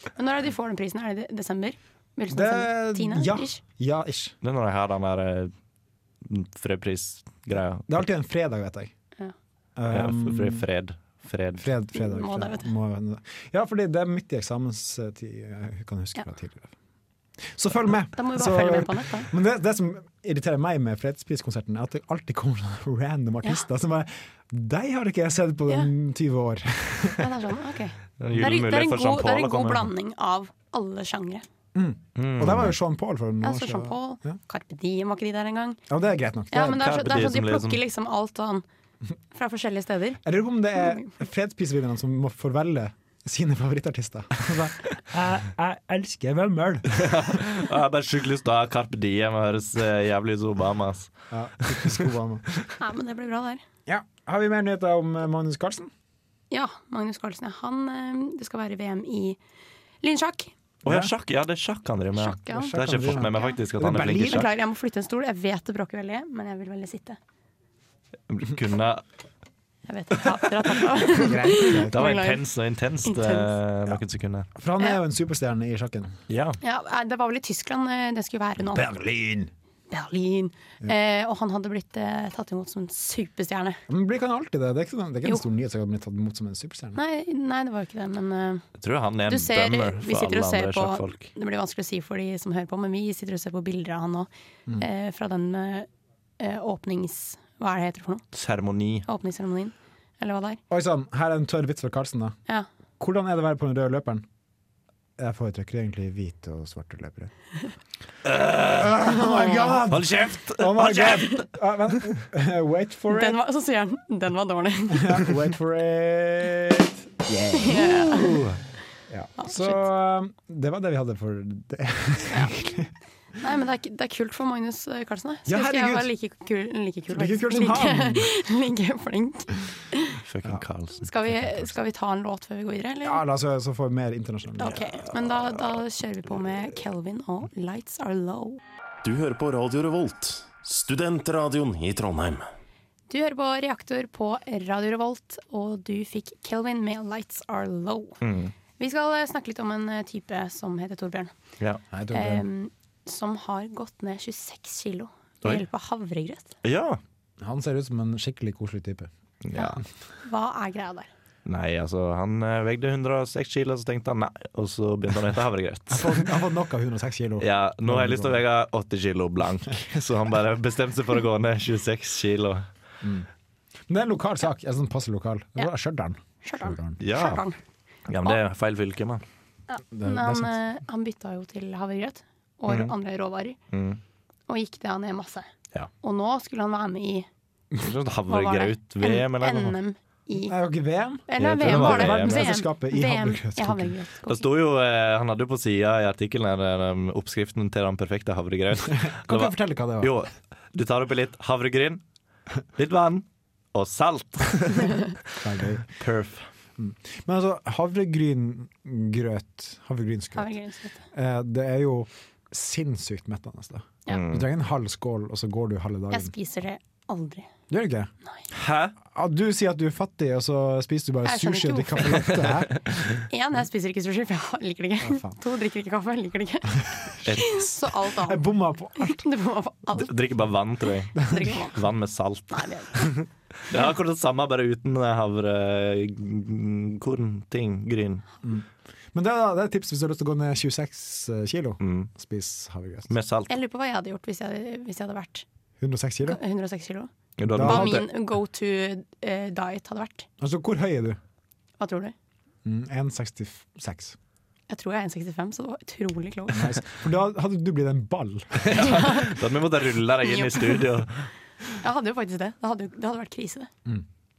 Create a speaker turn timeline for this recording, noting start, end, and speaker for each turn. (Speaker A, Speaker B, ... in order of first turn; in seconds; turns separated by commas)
Speaker A: 0.2-3.6, Speaker B: 2.3-4.3, Speaker C: 4.4-5.5, Speaker C: 6.2-8.0, Speaker B: 7.9-8.9, Speaker B: 9.8-10.7, Speaker C: 9.9-11.7, Speaker B: 11.6-16.7, Speaker A: 11.9-12.7, Speaker B: 17.5-27.3, Speaker A: 18.2-19.3, Speaker A: 27.2-31.4, Speaker C: 28.2-29.9, Speaker B: 31.7-34.4, Speaker C: 32.2-32.8, Speaker A: 33.4-35.8, Speaker B: 35.9-37.1, Speaker A: 36.5-38.6, Speaker C: 36.7-37.8, Speaker A: 39.3-40.2, Speaker B: 40.2-47.4, Speaker A: 40.8-41.1, Speaker C: 46.9-51.1, Speaker B: 51.3-52.6, Speaker C: 51.6-52.0, Speaker A: 52.8-53.6, Speaker B: 53.9-55.9, Speaker A: 56.5-59.4, Speaker A: 60.0-60.5, Speaker B: 60.9-61.1, Speaker C: 60.9-64.5, Speaker A: 62.1-63.6, Speaker B: 62.5-64.5, Speaker A: 64.2-67.2, Speaker C: 68.3-69.0, Speaker A: 69.9-72.4, Speaker B: 71.2-72.0, Speaker C: 71.9-74.5, Speaker A: 73.1-73.5, Speaker B: 74.5-76.2, Speaker C: 76.3-76.6, Speaker A: 76.6-78.9, Speaker B: 78.7-79.5, Speaker A: 79.9-83.8, Speaker B: 83.9-87.0, Speaker A: 87.0-88.7, Speaker C: 88.8-91.3, Speaker A: 89.3-95.9, Speaker A: 96.4-98.2, Speaker C: 98.3-99.1, Speaker A: 99.1-100.6, Speaker B: 100.7-102.4, Speaker B: 103.0-104.2, Speaker B: 105.2-107.3, Speaker C: 108.2-109.0, Speaker B: 108.7-113.4, Speaker A: 109.2-109.8, Speaker C: 109.9-111.4, Speaker A: 113.1-115.2, Speaker B: 114.9-117.8, Speaker A: 117.6-118.4, Speaker C: 117.7-118.6, Speaker B: 119.1-122.9, Speaker A: 119.4-119.8, Speaker A: 123.4-130.2, Speaker B: 125.5-126.1, Speaker B: 127.1-128.3, Speaker C: 130.2-131.7, Speaker A: 131.0-133.2, Speaker B: 133.0-135.0, Speaker A: 134.6-138.6, Speaker D: 139.0-142.5, Speaker A: 143.1-148.2, Speaker C: 148.2-148.5, Speaker A: 148.8-151.3, Speaker B: 151.9-152.5, Speaker A: 152.1-156.6, Speaker C: 156.6-157.0, Speaker B: 157.4-159.1, Speaker C: 159.4-159.8, Speaker A: 159.5-161.1, Speaker C: 161.5-166.2, Speaker B: 165.9-168.4, Speaker C: 167.4-172.7, Speaker B: 173.0-173.3, Speaker B: 173.9-177.0, Speaker A: 176.4-177.6, Speaker C: 177.0-177.4, Speaker C: 178.1-179.2, Speaker A: 179.7-183.6, Speaker B: 179.9-180.6, Speaker C: 183.7-184.0, Speaker A: 184.5-185.5, Speaker A: 186.0-187.3, Speaker C: 187.8-189.8, Speaker A: 188.3-190.6, Speaker B: 190.4-193.9, Speaker A: 191.3-194.5, Speaker C: 191.4-192.5, Speaker C: 194.3-202.0, Speaker B: 199.2-200.2, Speaker C: 202.8-205.3, Speaker B: 205.4-205.9, Speaker C: 206.0-206.5, Speaker B: 206.8-210.6, Speaker A: 210.4-211.0, Speaker B: 211.1-216.3, Speaker C: 214.1-214.4, Speaker A: 216.1-217.5, Speaker B: 217.7-218.1, Speaker C: 218.5-218.9, Speaker B: 219.1-222.8, Speaker A: 221.2-222.4, Speaker A: 223.3-228.4, Speaker B: 225.0-225.4, Speaker C: 227.2-227.6, Speaker B: 228.2-229.2, Speaker A: 229.0-230.1, Speaker C: 229.9-238.2, Speaker A: 231.2-231.8, Speaker A: 232.5-233.1, Speaker B: 238.4-243.1, Speaker C: 241.8-242.1, Speaker C: 243.1-243.5, Speaker A: 243.5-245.4, Speaker B: 245.8-246.4, Speaker A: 246.2-247.1, Speaker C: 247.4-248.1, Speaker B: 247.5-248.0, Speaker A: 247.6-250.3, Speaker B: 250.4-251.2, Speaker A: 251.8-252.1, Speaker B: 252.7-254.2, Speaker A: 254.7-256.8, Speaker B: 256.5-259.0, Speaker C: 258.6-261.3, Speaker A: 258.7-259.4, Speaker A: 260.3-260.8, Speaker A: 261.8-263.7